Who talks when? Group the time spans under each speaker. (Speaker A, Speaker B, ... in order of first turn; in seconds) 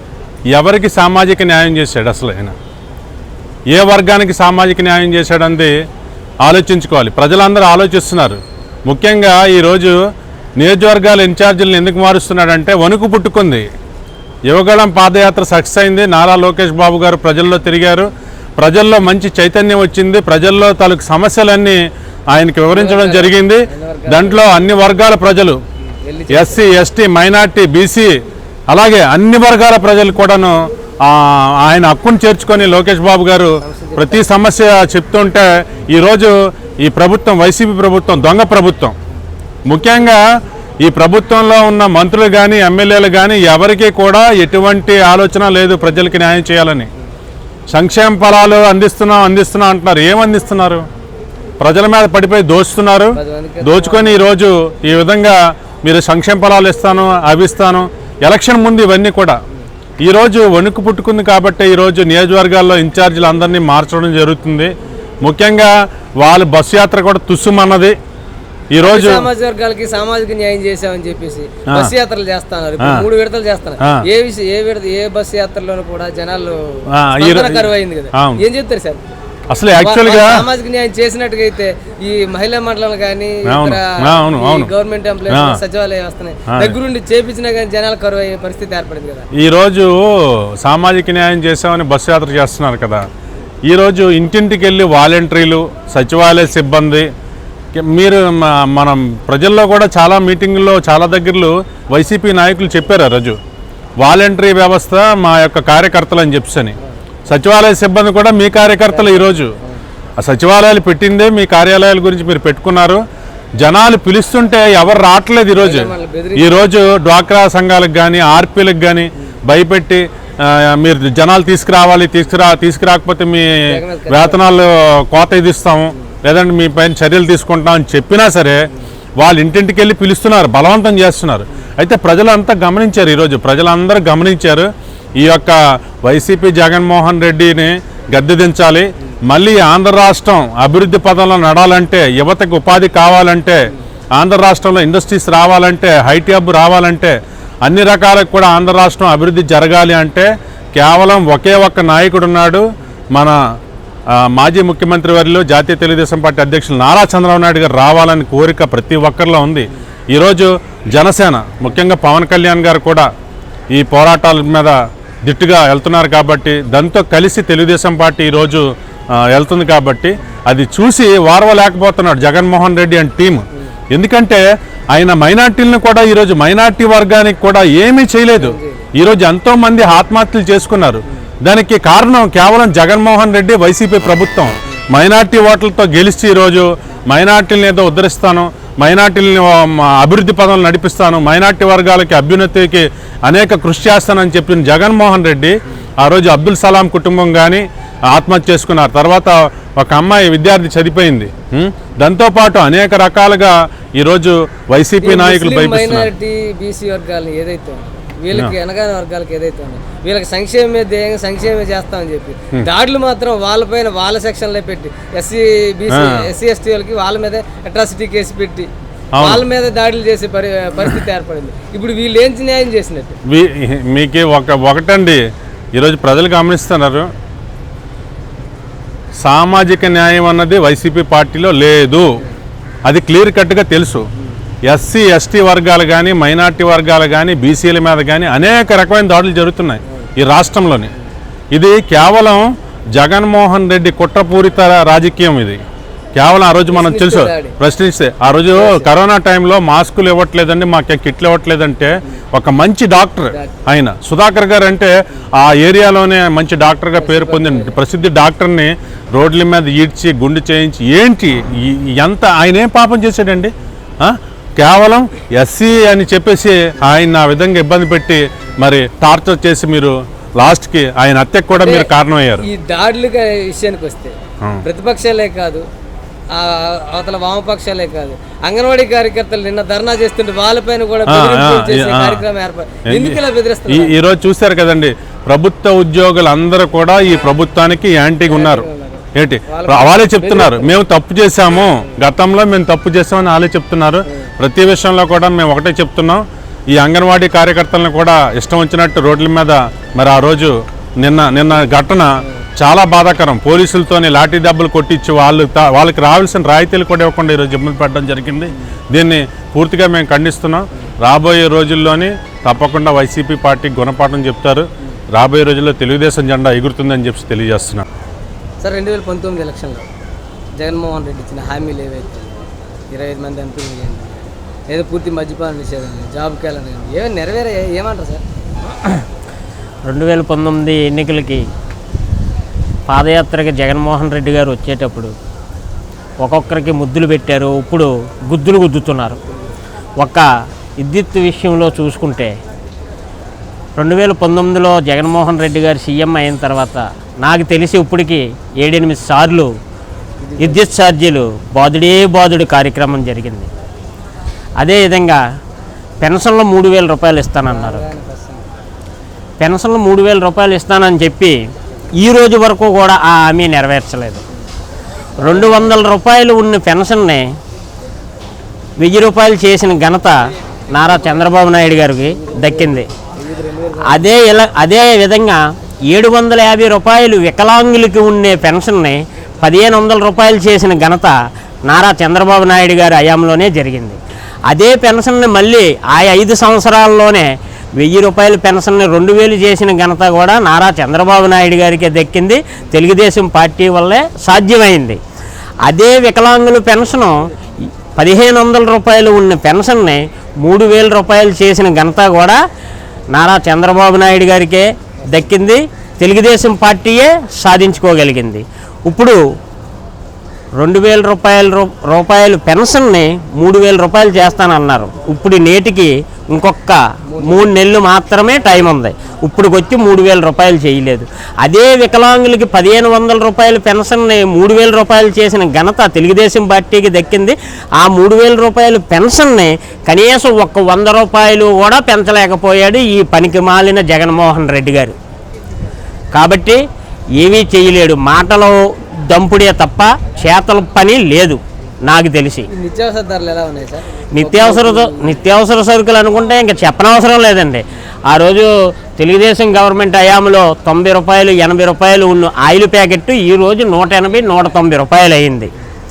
Speaker A: 0.5-2.5, 3.7-5.7, 6.4-10.0, 10.6-13.7, 14.5-21.8, 22.3-25.6, 26.3-28.2, 28.7-39.0, 39.7-40.2, 40.8-46.9, 47.7-50.8, 51.6-59.4, 60.0-64.7, 65.2-68.0, 68.7-69.2, 72.8-73.0, 77.0-78.4, 79.5-80.4, 83.5-84.7, 85.3-85.6, 89.3-90.0, 90.6-93.0, 93.7-97.1, 97.8-103.4, 104.0-106.8, 107.3-109.5, 110.2-113.0, 113.6-128.6, 129.2-153.4, 154.1-163.1, 163.7-174.4, 174.9-206.1, 215.9-216.2, 219.2-219.4, 223.3-225.2, 225.8-227.1, 229.2-232.1, 232.8-234.1, 234.6-240.9, 241.5-245.6, 246.2-272.4, 281.1-282.2, 282.9-317.9
Speaker B: 22.7-24.4, 26.1-26.6, 33.6-34.3, 53.1-54.2, 68.8-76.6, 77.2-79.0, 79.7-89.3, 108.9-109.8, 115.6-116.7, 123.7-124.5, 178.4-178.9, 205.0-218.7, 219.2-223.2, 246.7-247.6, 248.5-248.9, 253.3-253.6, 257.0-257.8, 271.5-271.9, 272.4-275.6, 276.3-283.9, 288.3-290.7, 318.6-319.9, 320.6-328.2, 350.2-350.6, 357.4-358.5, 365.2-365.7, 372.1-374.1, 417.1-417.4, 442.5-445.2
Speaker C: 329.9-331.5, 332.9-335.1, 336.2-339.2, 340.0-342.4, 343.8-349.5, 350.4-353.5, 354.6-355.2, 356.0-357.8, 359.4-361.4, 362.0-364.2, 365.2-367.3, 368.8-372.9, 373.9-395.0, 395.6-402.4, 403.1-409.2, 410.6-435.0, 436.1-436.6, 437.2-442.5, 444.1-455.5